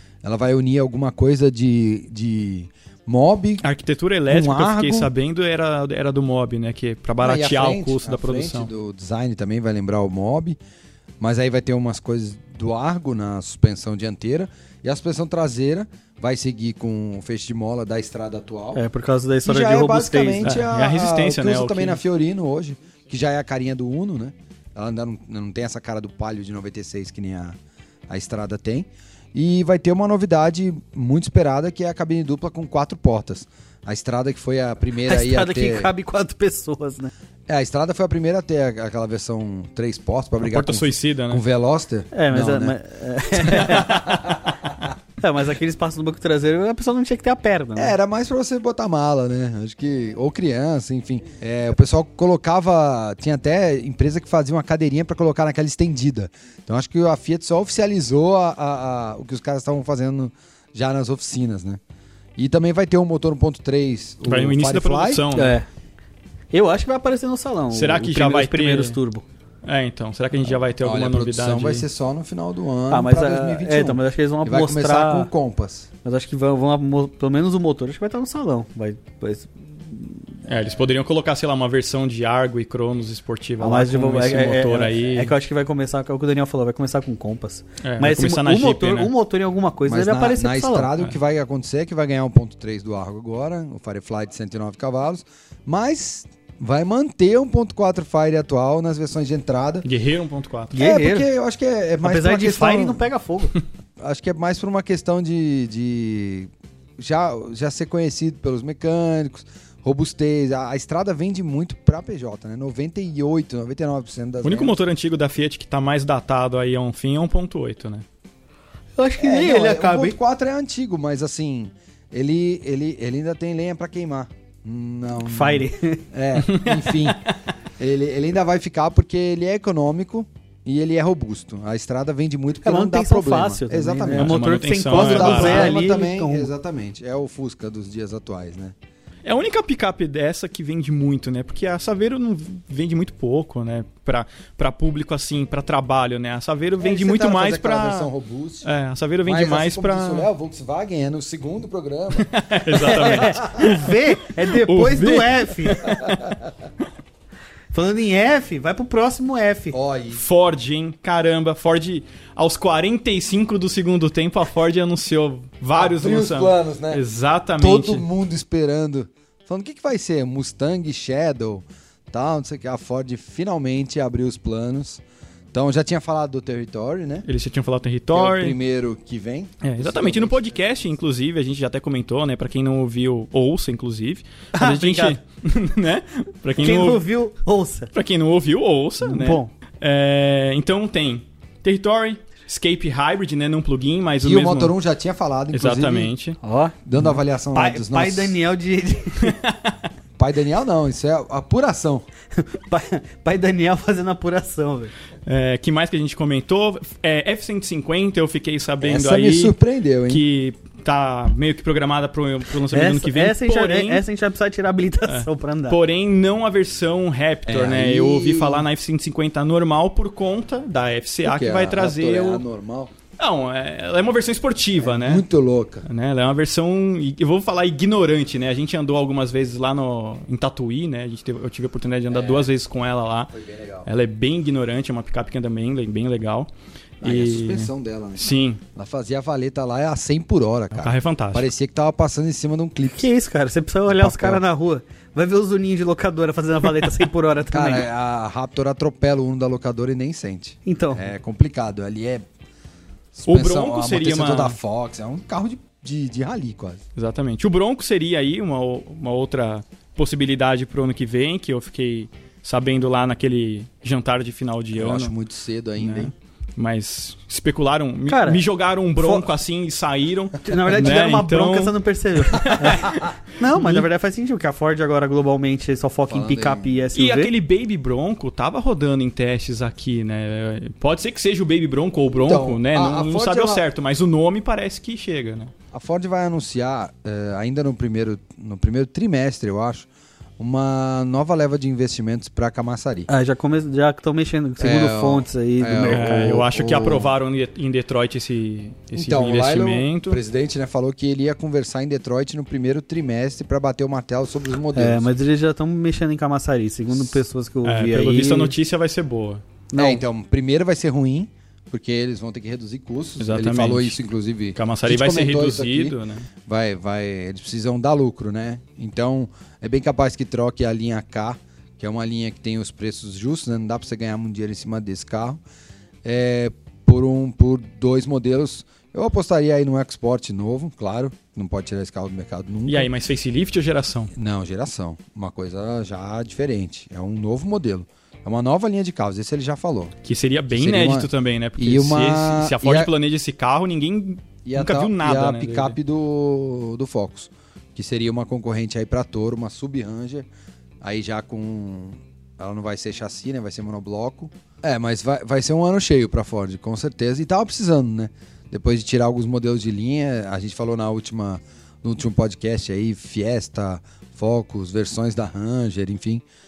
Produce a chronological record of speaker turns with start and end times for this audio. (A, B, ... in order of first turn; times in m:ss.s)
0:00.2-0:03.6 A
0:03.6-0:08.7 B
0:04.3-0:05.1 A
0:07.2-0:10.6 A
0:11.2-0:18.8 A
0:18.7-0:20.5 C
0:19.5-0:35.9 A
0:20.4-0:22.0 B
0:35.1-0:37.1 C
0:37.5-0:42.8 A
0:40.4-0:41.4 B
0:42.1-0:44.3 C
0:43.4-0:44.9 A
0:45.2-0:48.0 C
0:47.8-1:01.8 A
1:02.4-1:05.2 A
1:04.3-1:05.6 B
1:05.4-1:05.7 C
1:06.5-1:09.2 C
1:07.7-1:09.0 B
1:09.6-1:11.9 B
1:10.8-1:15.9 A
1:12.9-1:15.3 C
1:16.0-1:20.3 C
1:20.5-1:25.3 B
1:23.6-1:30.9 C
1:27.8-1:29.1 B
1:29.8-1:39.9 A
1:39.8-1:40.8 B
1:40.7-1:41.3 C
1:40.8-1:43.1 A
1:42.0-1:43.6 C
1:44.0-1:54.8 A
1:54.4-1:58.0 B
1:59.0-2:00.2 C
1:59.2-2:18.8 A
2:05.2-2:06.0 C
2:06.4-2:07.3 B
2:12.6-2:16.5 C
2:14.1-2:15.8 B
2:19.2-2:28.1 B
2:26.8-2:28.7 A
2:28.6-2:30.3 B
2:29.2-2:33.6 A
2:32.2-2:36.1 B
2:32.8-2:36.0 C
2:36.0-2:36.3 A
2:37.7-2:39.8 C
2:39.7-2:40.2 A
2:40.1-2:48.0 B
2:45.8-2:47.0 A
2:47.6-2:55.0 A
2:55.5-2:57.3 A
2:57.3-2:58.6 B
2:58.1-3:00.6 A
2:59.6-3:07.0 B
3:04.5-3:05.2 C
3:06.6-3:07.9 C
3:07.9-3:14.8 B
3:09.0-3:09.5 C
3:14.2-3:16.1 A
3:15.5-3:16.4 B
3:16.4-3:16.8 C
3:16.8-3:18.4 A
3:17.5-3:19.4 C
3:19.2-3:19.8 B
3:20.2-3:22.1 A
3:22.4-3:24.9 C
3:25.3-3:29.6 B
3:28.8-3:30.2 A
3:30.1-3:34.0 B
3:32.7-3:35.8 C
3:35.1-3:42.4 B
3:37.5-3:38.7 A
3:41.2-3:42.9 A
3:43.2-3:45.2 B
3:44.8-3:45.9 A
3:45.8-3:53.3 B
3:52.1-3:52.5 A
3:53.3-3:53.9 A
3:53.8-3:56.5 B
3:57.0-3:58.6 B
3:57.0-4:03.1 A
4:00.8-4:01.5 B
4:02.9-4:07.9 C
4:03.9-4:04.4 A
4:07.5-4:12.3 A
4:10.7-4:11.0 C
4:13.1-4:16.8 A
4:13.3-4:14.6 B
4:17.0-4:25.1 B
4:24.7-4:26.1 A
4:25.8-4:33.9 B
4:28.1-4:28.4 C
4:29.0-4:29.3 C
4:30.4-4:37.3 C
4:36.1-4:36.8 A
4:37.0-4:45.5 B
4:42.2-4:43.6 A
4:45.7-4:49.9 A
4:50.4-4:53.1 A
4:53.1-4:56.5 C
4:54.6-4:57.1 A
4:55.9-5:00.2 B
4:58.9-5:05.1 A
5:04.8-5:08.5 C
5:07.6-5:09.4 B
5:09.7-5:10.0 C
5:09.8-5:25.4 A
5:13.2-5:14.0 B
5:14.6-5:16.3 B
5:26.0-5:32.9 A
5:32.7-5:34.1 B
5:34.1-5:39.9 A
5:40.0-5:45.8 B
5:40.5-5:42.9 A
5:44.4-5:50.3 A
5:50.8-6:06.2 A